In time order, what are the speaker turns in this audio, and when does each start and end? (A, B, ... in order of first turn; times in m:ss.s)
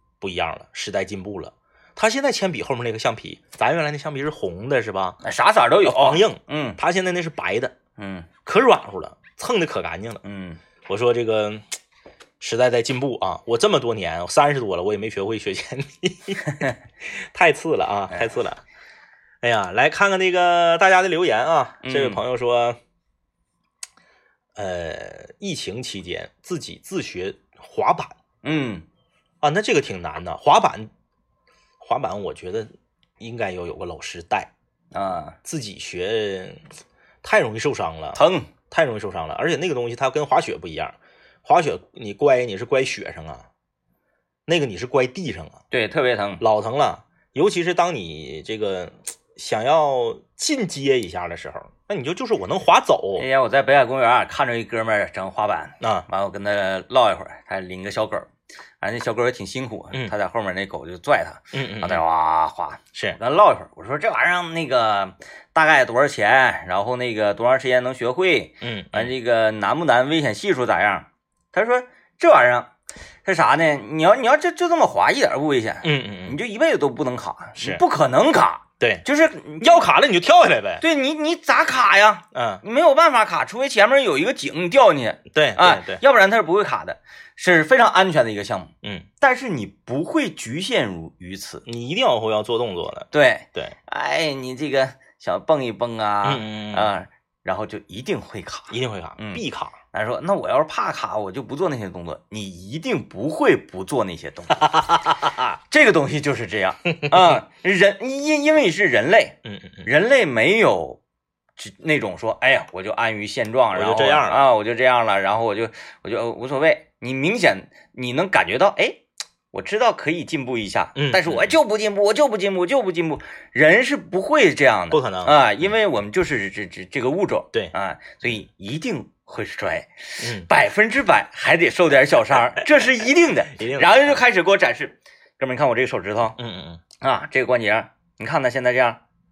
0:00.2-0:05.2 A
0:05.2-0:06.8 B
0:05.8-0:07.8 A
0:08.0-0:08.3 B
0:08.4-0:10.2 A
0:10.2-0:10.6 B
0:10.9-0:11.7 A
0:12.4-0:18.6 A
0:16.5-0:16.7 B
0:19.4-0:22.8 A
0:21.8-0:22.2 B
0:24.6-0:28.1 A
0:28.4-0:28.8 B
0:29.4-0:30.9 A
0:31.8-0:32.7 A
0:33.2-0:34.5 A
0:34.9-0:35.4 B
0:35.4-0:36.6 A
0:37.2-0:38.2 A
0:38.2-0:38.5 B
0:38.7-0:43.5 A
0:44.5-0:45.6 A
0:45.7-0:46.4 B
0:46.4-0:53.3 A
0:53.2-0:58.3 B
0:55.8-0:56.1 A
0:58.8-1:12.7 B
1:01.5-1:02.0 A
1:08.6-1:09.1 A
1:13.2-1:19.8 B
1:15.8-1:16.4 A
1:17.6-1:17.8 A
1:19.6-1:20.8 A
1:20.8-1:31.6 B
1:22.3-1:22.6 A
1:25.3-1:26.0 A
1:31.7-1:33.8 A
1:33.1-1:51.0 B
1:36.2-1:36.9 A
1:38.7-1:39.8 A
1:44.6-1:45.5 A
1:46.9-1:47.4 A
1:49.4-1:49.9 A
1:51.6-1:59.0 B
1:53.7-1:54.4 A
1:59.5-2:16.4 B
2:01.0-2:01.6 A
2:04.9-2:05.4 A
2:10.2-2:10.5 A
2:13.5-2:14.2 A
2:16.4-2:16.8 A
2:17.0-2:19.0 B